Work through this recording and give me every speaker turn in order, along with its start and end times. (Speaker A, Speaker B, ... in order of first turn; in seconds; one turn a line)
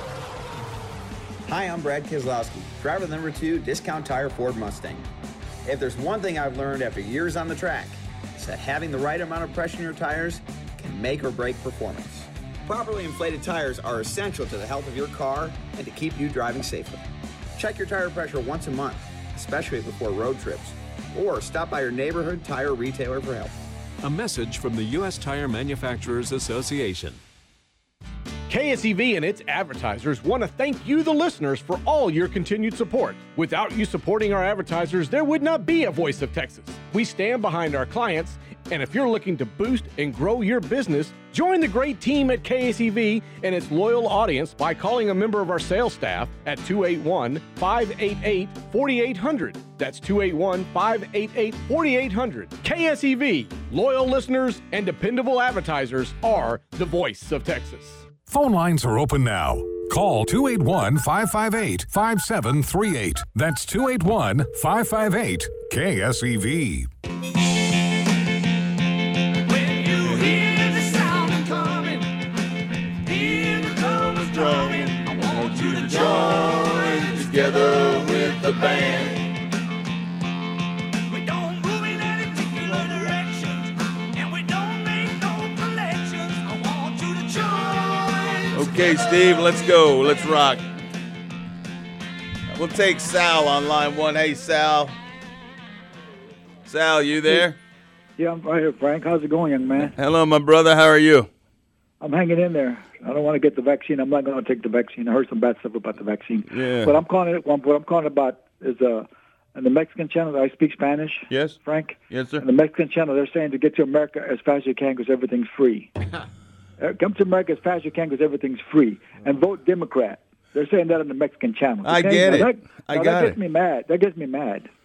Speaker A: 1.5-5.1
Speaker A: 5.7-17.0
Speaker A: 17.6-23.6
Speaker B: 24.1-27.2
Speaker C: 28.5-58.1
Speaker D: 58.3-66.9
Speaker E: 70.0-70.4
Speaker E: 73.1-79.2
Speaker E: 88.5-90.6
Speaker E: 92.5-95.0
Speaker E: 96.7-97.6
Speaker F: 98.2-99.9
Speaker E: 99.9-101.3
Speaker F: 102.0-115.9
Speaker E: 106.5-107.0
Speaker E: 111.3-111.6
Speaker E: 112.1-112.4
Speaker F: 116.8-124.7
Speaker E: 121.8-123.4